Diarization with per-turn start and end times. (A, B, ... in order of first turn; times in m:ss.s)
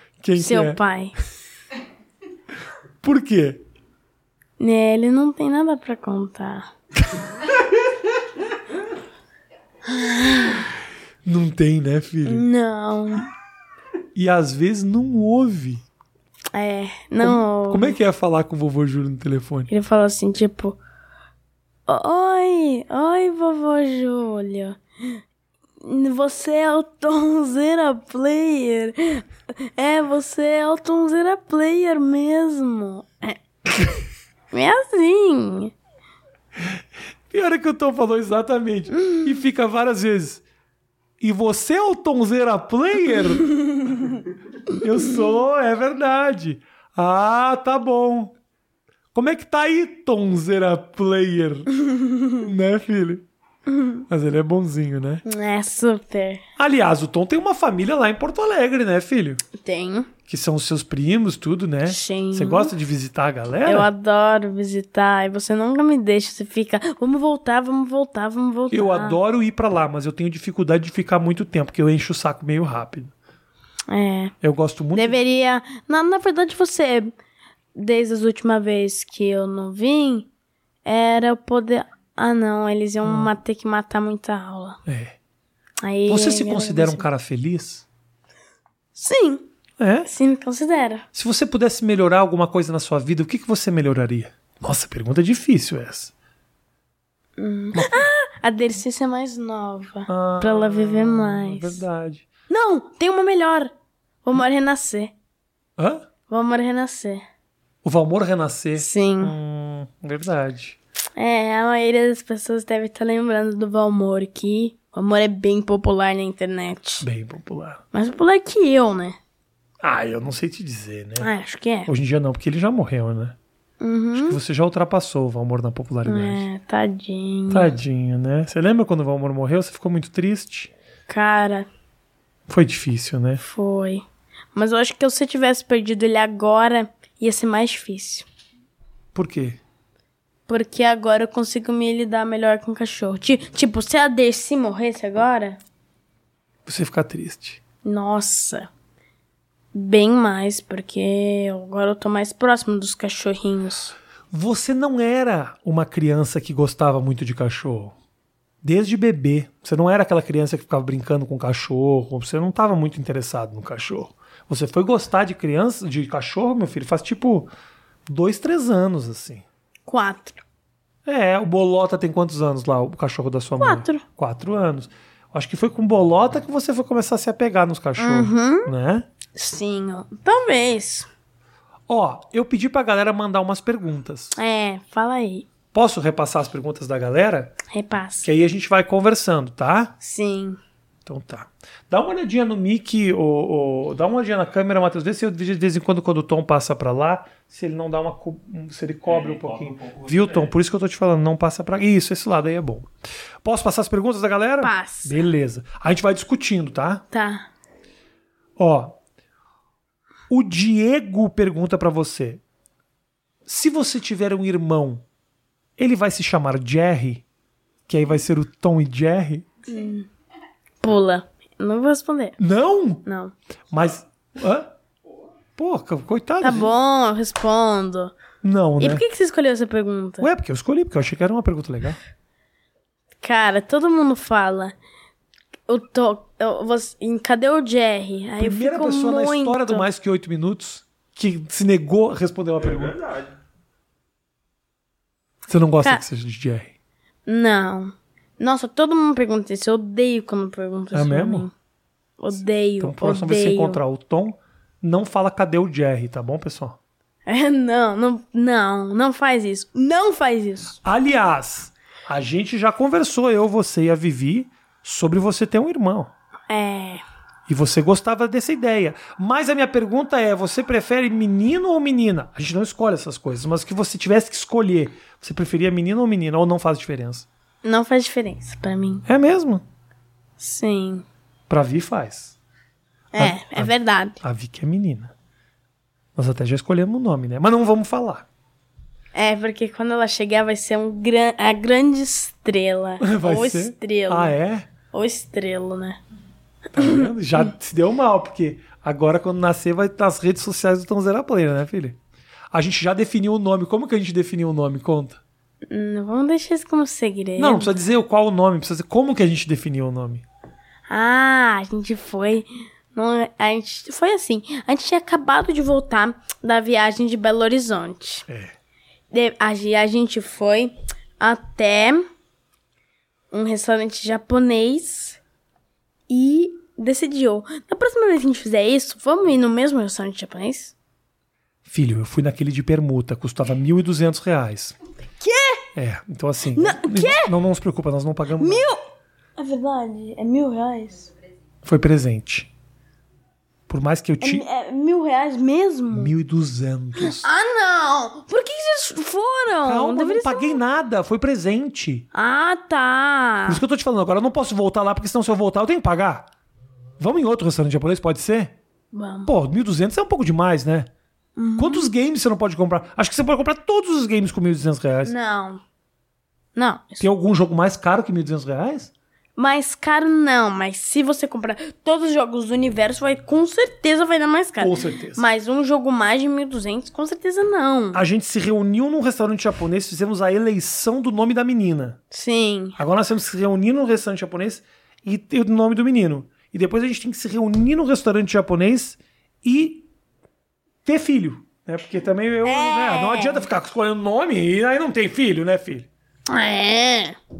0:00.2-0:00.8 A
0:00.4-0:01.2 B
0:03.0-0:03.6 A
0:04.6-0:06.7 B
0:09.8-0:10.7 B
0:11.2-0:12.5 A
0:12.2-0:13.3 B
0:14.2-0:15.8 A
0:16.5-0:18.0 B
0:17.2-0:19.7 A
0:19.7-0:20.8 B
0:21.9-0:25.2 B
0:25.8-0:34.0 B
0:34.5-0:35.7 B
0:37.3-0:40.4 A
0:38.9-0:39.2 B
0:41.2-0:43.6 A
0:43.6-0:44.2 B
0:44.8-0:48.4 A
0:49.1-0:51.7 A
0:51.8-0:52.5 B
0:52.4-0:53.3 A
0:53.7-0:54.0 B
0:54.1-0:55.2 A
0:55.2-0:56.4 B
0:56.6-0:59.4 A
0:59.6-1:00.1 B
1:00.3-1:03.9 A
1:01.8-1:02.7 B
1:03.7-1:09.2 B
1:08.7-1:13.1 A
1:13.9-1:14.4 B
1:14.4-1:15.2 A
1:14.9-1:17.1 B
1:17.8-1:20.3 B
1:20.8-1:24.8 B
1:23.0-1:23.3 A
1:24.9-1:25.2 A
1:25.8-1:27.0 B
1:26.1-1:27.8 A
1:29.0-1:29.5 B
1:29.8-1:30.1 A
1:30.0-1:31.0 B
1:31.1-1:36.1 A
1:37.4-1:41.8 B
1:37.7-1:38.1 A
1:40.1-1:42.3 A
1:42.5-1:43.7 B
1:44.2-1:45.1 B
1:45.8-1:46.1 A
1:46.3-1:47.2 B
1:47.8-1:50.8 A
1:48.8-1:49.4 B
1:51.2-1:57.1 B
1:57.0-1:57.8 A
1:57.9-1:59.2 B
1:59.8-2:01.3 A
2:01.2-2:01.9 B
2:01.9-2:03.4 A
2:03.8-2:04.4 B
2:04.2-2:06.5 A
2:06.0-2:07.7 B
2:07.5-2:10.7 A
2:11.1-2:11.7 B
2:12.5-2:13.4 A
2:13.4-2:14.0 B
2:14.6-2:18.3 B
2:19.1-2:19.6 A
2:20.5-2:25.6 B
2:26.7-2:27.6 A
2:27.8-2:28.7 B
2:29.7-2:34.0 B
2:34.3-2:38.0 A
2:38.6-2:47.5 A
2:48.1-2:49.4 A
2:49.9-2:50.4 B
2:51.1-2:59.1 A
2:53.6-2:54.0 B
2:58.0-2:58.7 B
2:59.4-3:01.1 B
3:01.9-3:04.3 A
3:04.4-3:05.5 B
3:05.7-3:07.6 A
3:07.7-3:08.3 B
3:08.2-3:10.0 A
3:10.0-3:10.6 B
3:11.1-3:22.9 A
3:19.1-3:20.5 C
3:23.4-3:27.0 A
3:24.6-3:25.2 B
3:27.1-3:27.5 B
3:28.6-3:29.0 A
3:30.3-3:32.4 A
3:33.5-3:35.0 A
3:35.8-3:37.2 A
3:37.9-3:39.5 A
3:39.7-3:40.1 B
3:40.8-3:42.4 B
3:42.4-3:43.0 A
3:43.0-3:43.3 B
3:43.7-3:44.7 A
3:45.6-3:46.7 A
3:46.4-3:48.2 B
3:48.4-3:49.0 A
3:48.8-3:50.3 B
3:50.2-3:52.0 A
3:53.2-3:54.7 B
3:55.7-3:59.9 B
3:58.4-4:03.0 A
4:02.6-4:03.3 C
4:05.5-4:06.7 A
4:07.3-4:11.5 B
4:10.9-4:11.5 A
4:12.2-4:13.8 B
4:12.8-4:16.8 A
4:17.3-4:20.8 B
4:20.8-4:26.1 A
4:26.5-4:27.0 B
4:27.5-4:37.3 A
4:37.6-4:39.0 B
4:39.1-4:39.6 A
4:40.4-4:41.0 B
4:41.5-4:42.4 A
4:43.1-4:44.2 B
4:43.2-4:45.1 A
4:46.2-4:48.3 A
4:49.1-4:54.3 B
4:53.0-4:54.7 A
4:54.9-4:56.0 B
4:56.8-5:02.0 A
4:56.8-4:57.1 B
5:02.5-5:05.2 A
5:05.7-5:07.7 B
5:07.4-5:10.2 A
5:10.9-5:18.3 B
5:18.3-5:18.5 A
5:19.1-5:22.0 B
5:23.3-5:25.2 B
5:26.1-5:30.7 B
5:31.7-5:34.8 A
5:35.2-5:35.7 B
5:35.8-5:38.7 A
5:36.5-5:37.3 B
5:38.4-5:38.8 B
5:39.4-5:41.1 B
5:41.6-5:42.5 A
5:43.7-5:44.4 A
5:44.2-5:46.1 B
5:45.9-5:47.3 A
5:47.0-5:50.6 B
5:49.6-5:52.1 A
5:52.1-5:53.6 B
5:53.5-5:56.3 A
5:57.0-5:58.6 A
5:58.9-5:59.3 B
5:59.2-6:00.9 A
6:01.4-6:01.9 B
6:01.6-6:05.2 A
6:05.0-6:05.6 B
6:06.6-6:07.1 B
6:07.0-6:08.9 A
6:09.4-6:18.0 B
6:14.6-6:15.3 A
6:17.9-6:22.0 A
6:22.1-6:22.8 B
6:22.8-6:29.9 A
6:30.9-6:35.9 A
6:32.4-6:33.4 B
6:36.3-6:37.2 B